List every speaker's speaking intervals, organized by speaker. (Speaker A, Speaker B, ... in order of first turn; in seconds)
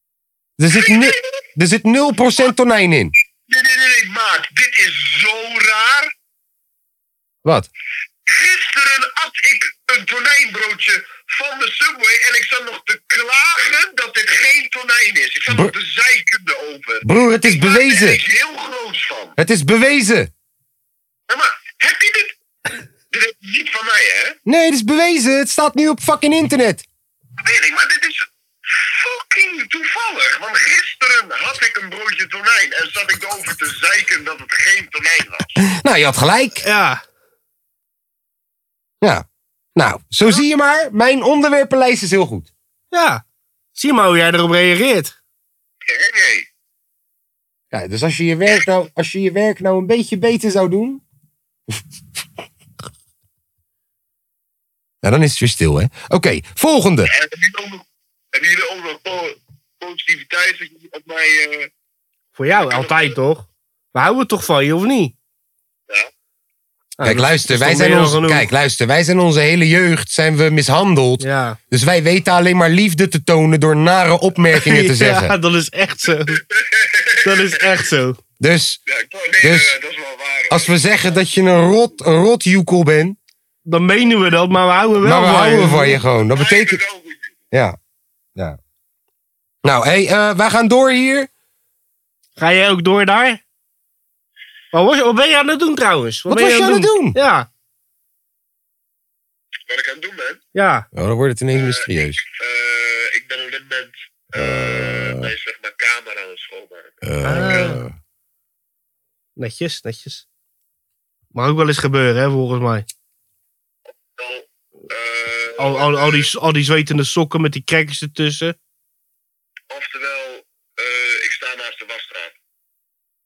Speaker A: 0.6-3.1, 7.4-7.7, 15.5-15.7, 17.0-18.2, 19.4-20.3, 24.5-26.9, 35.6-36.6, 39.8-42.5, 47.7-51.0, 55.0-57.1, 67.0-75.3, 78.4-78.8, 79.4-79.7, 80.5-83.2, 85.0-86.8, 87.5-87.8, 89.6-91.3, 96.3-97.2, 100.9-102.2, 104.3-105.3, 107.0-108.0
Speaker B: 0.7-1.4, 3.5-6.1, 8.3-19.4, 21.3-22.4, 23.1-24.4, 27.4-35.6, 45.8-46.5, 57.1-61.7, 62.5-63.1, 76.3-77.6, 78.9-80.7, 86.2-87.4, 99.7-100.4, 101.5-107.7, 114.2-116.3, 119.7-122.3
Speaker C: 36.6-37.0, 42.9-43.2, 43.8-45.1, 62.4-65.1, 67.0-68.5, 71.2-71.6, 74.5-76.4, 77.2-78.2, 83.7-86.0, 92.4-93.4, 94.7-97.5, 100.5-100.9, 107.2-107.8, 109.4-110.2, 111.3-112.9, 115.6-118.6